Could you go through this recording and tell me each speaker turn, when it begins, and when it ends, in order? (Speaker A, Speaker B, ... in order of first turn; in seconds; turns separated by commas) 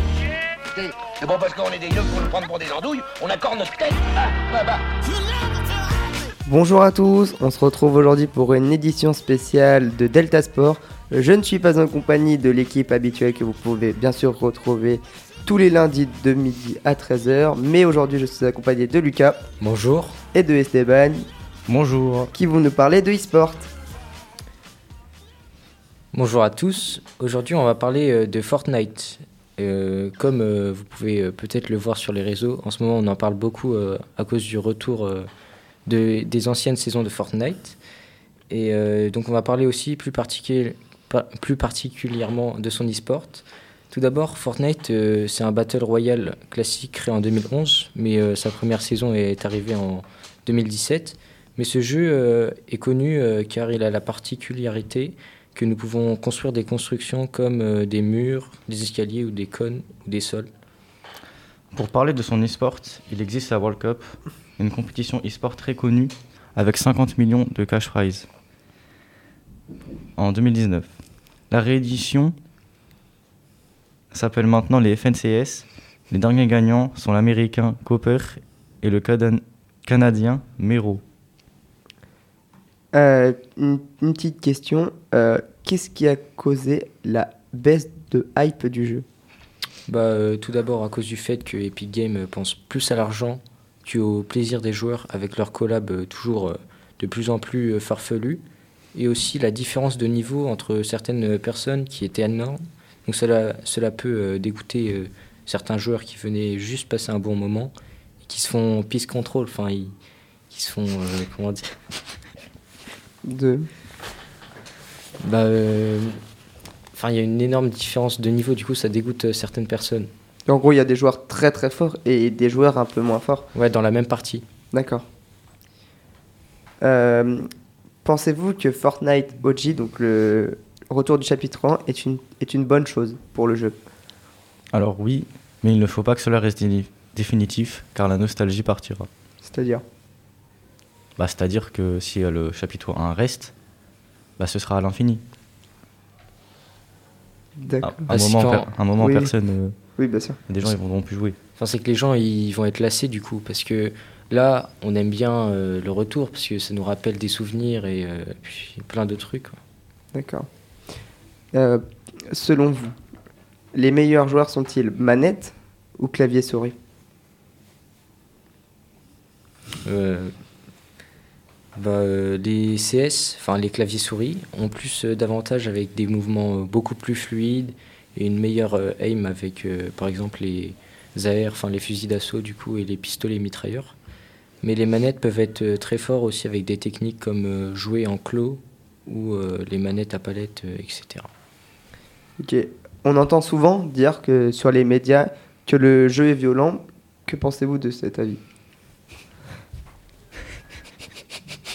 Speaker A: 0.7-4.8, Speaker B: 6.5-19.4, Speaker C: 19.6-20.2, Speaker B: 20.3-21.3, Speaker D: 21.7-22.3, Speaker B: 22.3-23.7, Speaker C: 26.1-35.3, Speaker C: 35.9-37.8, Speaker C: 38.5-60.5, Speaker D: 61.7-68.3, Speaker D: 70.2-70.9, Speaker D: 71.5-72.3, Speaker D: 74.1-81.0, Speaker B: 82.9-89.0, Speaker C: 89.9-98.4, Speaker C: 99.0-107.7, Speaker C: 108.2-109.9, Speaker C: 110.5-111.7, Speaker B: 113.2-113.7, Speaker C: 115.2-116.2, Speaker C: 116.9-120.1, Speaker B: 120.5-123.5, Speaker C: 123.5-124.5, Speaker B: 124.7-125.1, Speaker B: 126.8-127.5, Speaker B: 128.0-133.8, Speaker D: 134.7-139.1, Speaker B: 139.4-139.8, Speaker D: 141.2-143.5, Speaker D: 144.4-145.2, Speaker B: 147.6-148.1, Speaker D: 147.8-149.8, Speaker C: 148.1-148.7, Speaker B: 149.0-149.3, Speaker B: 150.0-150.4, Speaker D: 150.5-151.4, Speaker C: 151.6-159.6, Speaker B: 160.1-160.5, Speaker B: 161.5-162.9, Speaker B: 163.7-166.8, Speaker C: 169.8-170.3, Speaker C: 171.8-184.0, Speaker C: 184.6-191.3, Speaker B: 192.4-198.4